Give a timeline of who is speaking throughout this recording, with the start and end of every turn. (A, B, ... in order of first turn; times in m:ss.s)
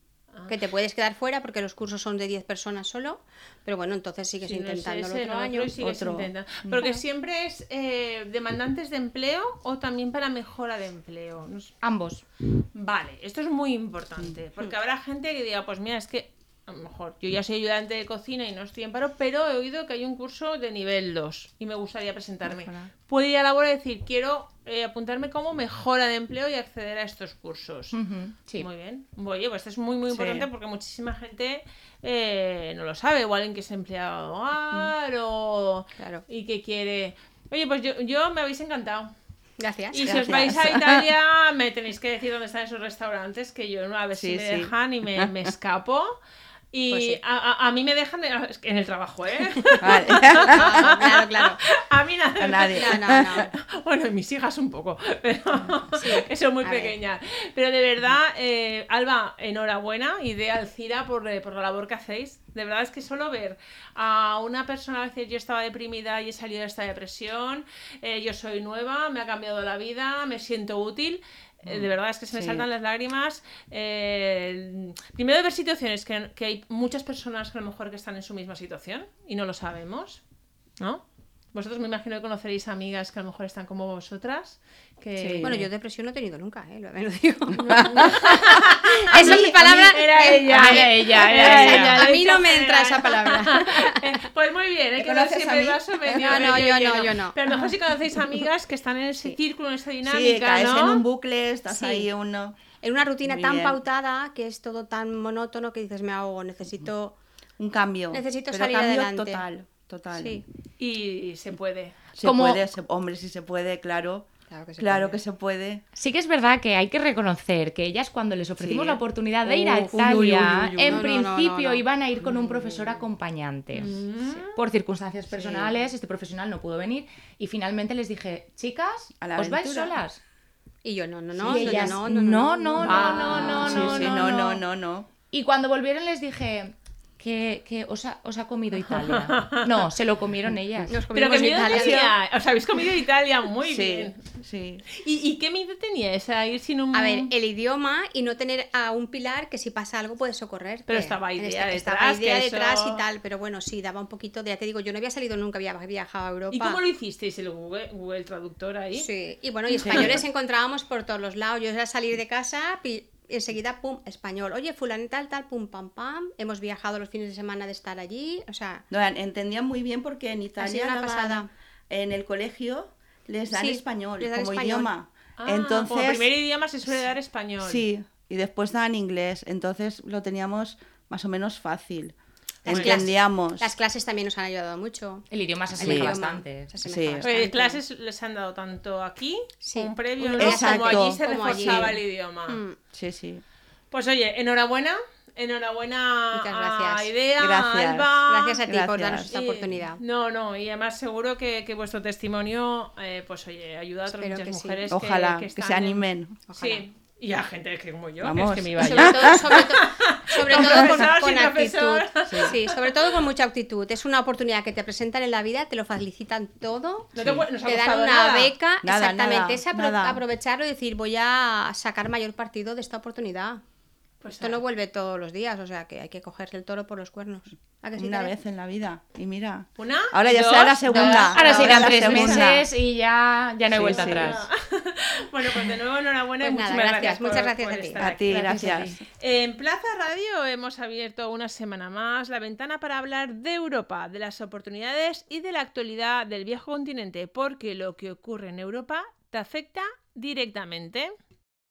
0:00.5-0:05.7 A
0:04.4-0:11.7 B
0:05.8-0:07.0 C
0:11.8-0:12.2 D
0:12.7-0:28.0 B
0:27.9-0:28.7 D
0:28.6-0:39.1 B
0:30.1-0:30.4 C
0:36.0-0:36.2 A
0:39.6-0:40.2 A
0:39.9-0:46.1 B
0:40.0-0:41.0 C
0:44.2-0:45.3 C
0:46.7-1:20.2 B
0:46.9-0:47.2 A
0:49.6-0:51.6 A
0:49.8-0:51.1 C
0:52.4-0:53.5 C
0:52.7-0:53.5 A
0:55.9-0:57.0 A
1:11.6-1:12.6 C
1:21.5-1:25.6 B
1:25.2-1:25.5 C
1:25.4-1:28.3 A
1:27.6-1:41.0 B
1:27.8-1:32.0 C
1:29.1-1:34.2 A
1:30.6-1:32.0 D
1:35.0-1:36.5 C
1:36.1-1:37.4 A
1:40.0-1:42.6 C
1:41.7-1:42.1 A
1:42.8-1:47.2 A
1:43.2-1:43.8 C
1:47.6-1:50.4 C
1:48.1-1:49.4 A
1:50.1-1:50.4 A
1:50.8-1:52.0 B
1:52.2-1:54.3 C
1:52.2-1:52.6 D
1:54.5-1:55.2 A
1:54.8-1:55.8 C
1:56.0-2:04.0 D
1:58.6-2:01.1 C
1:59.8-2:01.8 A
2:02.2-2:02.8 C
2:03.7-2:04.5 B
2:04.5-2:10.2 D
2:05.3-2:05.7 C
2:09.2-2:09.9 C
2:10.8-2:14.1 A
2:11.4-2:12.0 C
2:11.5-2:14.6 D
2:12.8-2:14.0 B
2:13.0-2:15.1 C
2:15.3-2:21.0 D
2:18.8-2:19.8 B
2:20.9-2:22.1 A
2:21.1-2:24.2 B
2:21.4-2:22.1 C
2:23.6-2:24.8 C
2:24.9-2:27.3 B
2:26.9-2:36.8 A
2:30.9-2:33.0 B
2:36.5-2:39.1 B
2:38.9-2:48.8 A
2:39.8-2:40.2 C
2:39.8-2:40.2 B
2:48.9-2:56.3 C
2:50.6-2:51.5 A
2:53.5-2:54.9 A
2:55.4-2:57.8 B
2:57.6-3:03.7 C
3:02.7-3:07.8 A
3:02.7-3:03.0 B
3:05.3-3:06.7 D
3:05.8-3:06.2 C
3:06.8-3:07.2 C
3:07.2-3:12.6 B
3:09.6-3:12.8 A
3:10.4-3:11.9 C
3:12.9-3:13.4 C
3:13.9-3:18.6 B
3:16.3-3:17.1 A
3:17.4-3:19.3 C
3:18.2-3:20.0 A
3:19.3-3:26.0 B
3:24.1-3:24.8 A
3:24.9-3:26.4 C
3:26.5-3:26.8 A
3:26.6-3:33.2 B
3:28.2-3:29.7 C
3:28.8-3:37.1 A
3:30.4-3:31.1 C
3:32.3-3:32.5 C
3:37.1-3:38.5 B
3:37.2-3:37.5 C
3:37.6-3:43.6 A
3:38.8-3:40.2 C
3:44.2-3:44.6 B
3:44.4-3:48.3 A
3:47.9-3:52.6 C
3:49.8-3:52.6 B
3:50.9-3:54.5 D
3:53.7-3:54.4 C
3:53.8-4:11.1 B
3:56.4-3:58.0 A
3:58.0-3:59.0 C
3:58.3-3:59.0 D